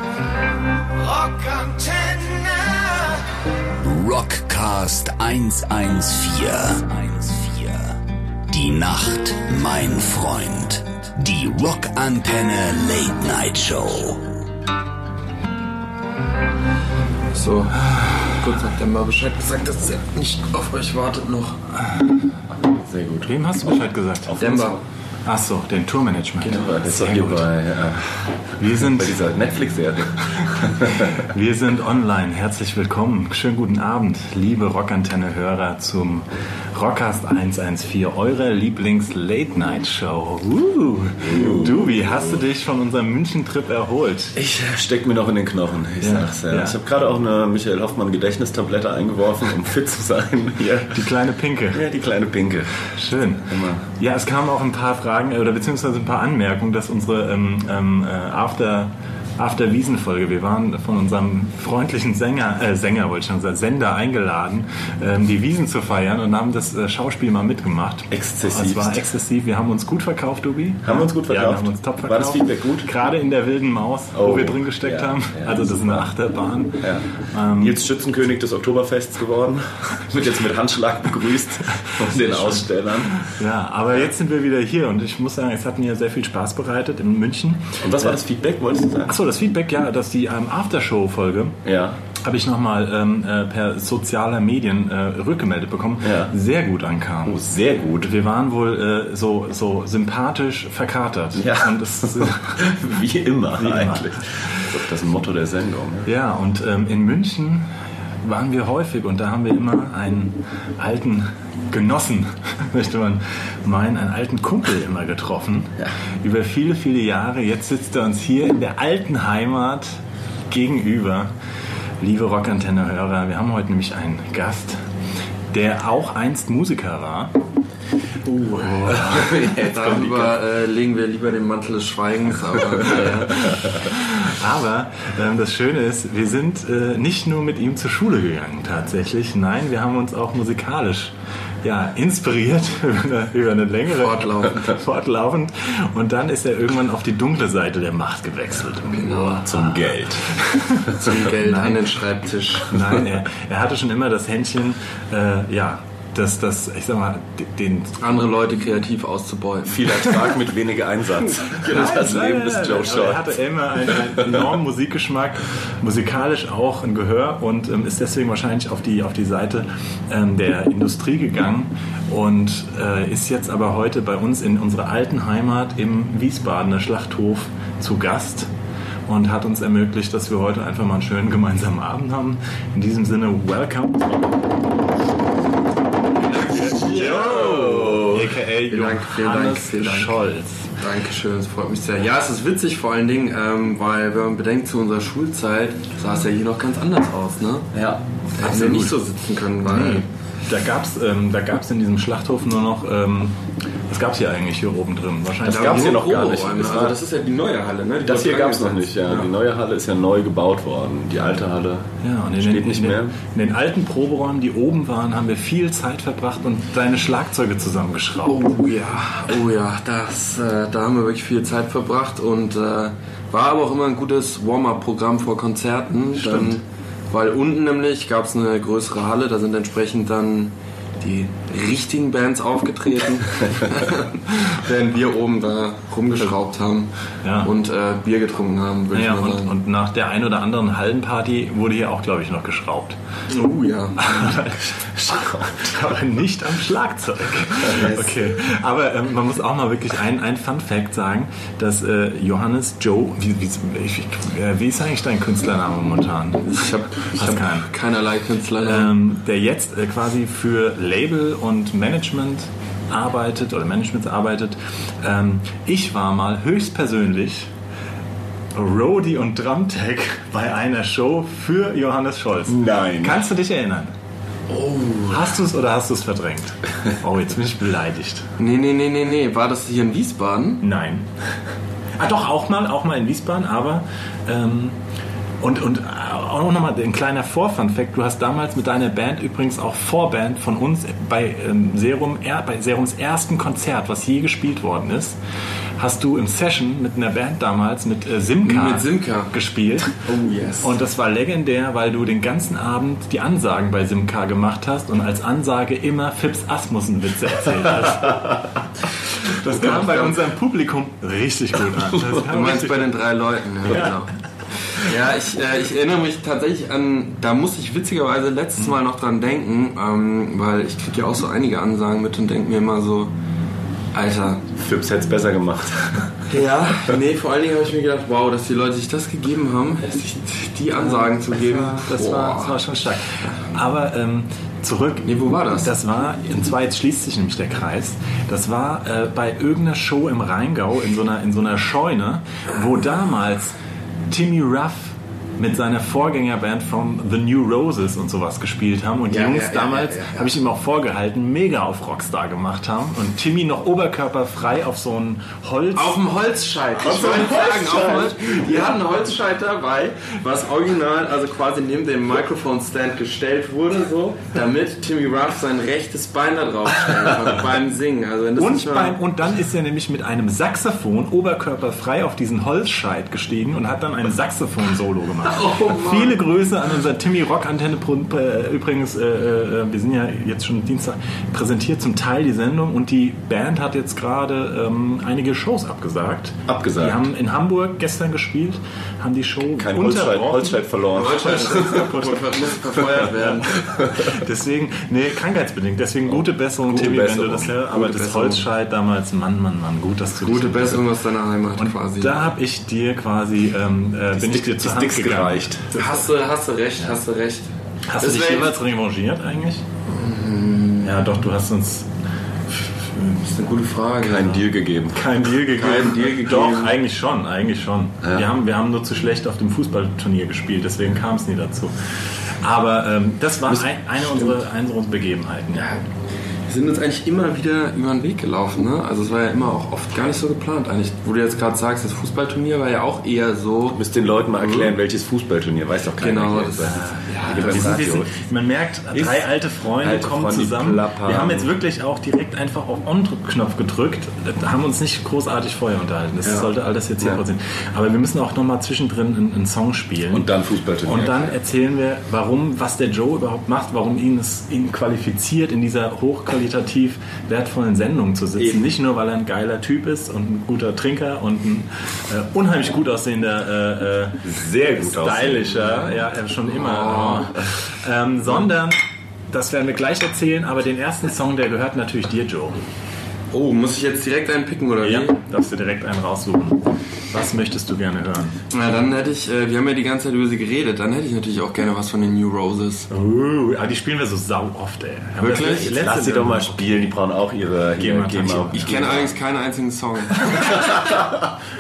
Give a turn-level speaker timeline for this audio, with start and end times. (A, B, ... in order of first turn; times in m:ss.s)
0:01.0-0:03.2 A
0:03.8-0:08.0 A
0:08.5-0:14.3 A
0:17.3-0:21.6 B
0:21.8-0:22.2 C
0:22.5-0:23.3 D
0:23.2-0:24.5 C
0:24.3-0:24.8 D
0:24.4-0:24.8 B
0:25.2-0:27.5 C
0:26.4-0:28.1 D
0:28.6-0:29.2 C
0:28.6-0:31.2 D
0:30.8-0:44.4 C
0:41.2-0:42.0 D
0:44.4-0:51.0 D
0:46.0-0:46.8 C
0:50.9-0:51.8 C
0:51.7-0:52.8 D
0:52.9-1:17.8 C
0:53.5-0:53.8 D
1:08.1-1:09.0 D
1:10.8-1:12.9 D
1:14.1-1:16.1 D
1:17.6-1:23.3 D
1:22.0-1:28.1 C
1:27.8-1:29.2 D
1:29.1-1:31.6 C
1:31.7-1:32.0 D
1:32.2-1:37.4 C
1:36.0-1:36.3 D
1:37.2-1:38.1 D
1:38.0-1:42.7 C
1:41.4-1:46.1 D
1:43.6-1:44.6 C
1:46.0-1:47.7 C
1:48.2-2:01.3 C
2:02.0-2:04.8 C
2:05.5-2:07.3 C
2:08.2-2:09.1 C
2:08.6-2:13.5 B
2:08.8-2:10.3 D
2:13.5-2:31.8 C
2:24.0-2:24.8 B
2:28.9-2:29.4 B
2:29.4-2:30.4 D
2:31.0-2:32.8 B
2:32.6-2:38.0 C
2:38.0-2:40.3 B
2:39.7-2:43.4 D
2:41.5-2:41.8 B
2:41.7-2:58.5 C
2:59.1-3:04.2 C
3:06.4-3:10.7 C
3:06.5-3:08.1 B
3:06.5-3:08.3 D
3:08.7-3:10.2 B
3:10.8-3:17.7 B
3:17.7-3:18.0 D
3:18.4-3:19.0 C
3:18.4-3:20.1 B
3:19.7-3:23.4 C
3:23.9-3:26.0 C
3:25.4-3:27.0 D
3:25.4-3:29.3 B
3:28.0-3:33.2 D
3:32.0-3:38.5 C
3:38.3-3:56.9 B
3:46.2-3:46.5 C
3:57.2-3:57.5 C
3:57.4-3:59.5 B
3:58.9-4:03.0 C
4:03.3-4:04.4 B
4:04.0-4:17.7 C
4:05.2-4:05.6 D
4:16.4-4:18.9 B
4:18.6-4:27.5 C
4:28.6-4:33.9 C
4:32.5-4:33.2 D
4:34.5-4:35.2 B
4:35.1-4:38.3 C
4:38.4-4:40.6 B
4:40.6-4:41.1 C
4:42.0-4:44.8 C
4:45.4-4:55.2 C
4:55.8-5:00.0 C
4:58.4-4:59.3 B
4:59.9-5:00.8 B
5:00.6-5:08.4 C
5:09.2-5:13.0 C
5:09.6-5:10.1 B
5:12.3-5:14.1 B
5:13.7-5:14.0 C
5:14.7-5:23.1 B
5:23.9-5:24.4 B
5:24.5-5:26.2 D
5:26.3-5:32.6 B
5:31.3-5:43.5 C
5:35.0-5:35.7 B
5:44.1-5:56.0 C
5:49.1-5:50.3 B
5:55.7-6:09.0 B
5:56.8-5:58.5 D
6:08.4-6:32.2 C
6:15.3-6:16.2 B
6:26.5-6:27.0 D
6:29.6-6:32.0 D
6:30.9-6:33.6 B
6:33.2-6:40.8 C
6:33.6-6:34.1 D
6:36.1-6:37.6 D
6:37.7-6:38.5 B
6:40.2-6:42.3 B
6:41.6-6:46.1 C
6:44.1-6:45.7 D
6:45.8-6:47.5 B
6:47.9-6:49.7 C
6:48.0-6:48.5 B
6:49.9-6:51.0 B
6:50.8-6:51.9 C
6:52.5-6:53.2 C
6:53.2-6:54.4 B
6:54.0-6:55.0 D
6:54.9-7:01.7 C
6:55.6-6:56.8 B
6:58.0-6:58.3 D
7:02.4-7:05.7 C
7:06.5-7:13.8 B
7:13.7-7:18.1 D
7:14.4-7:14.8 B
7:16.0-7:17.8 B
7:16.7-7:30.3 C
7:18.9-7:19.3 D
7:19.8-7:21.5 D
7:30.1-7:31.3 D
7:30.8-7:44.2 C
7:44.2-7:46.0 D
7:44.8-7:48.8 C
7:46.5-7:47.3 B
7:49.3-7:52.6 C
7:53.3-7:55.2 B
7:54.8-7:58.4 C
7:58.5-8:02.9 B
8:02.9-8:06.7 C
8:05.2-8:05.8 B
8:05.6-8:09.1 D
8:07.8-8:08.8 C
8:08.5-8:10.9 B
8:10.7-8:11.0 D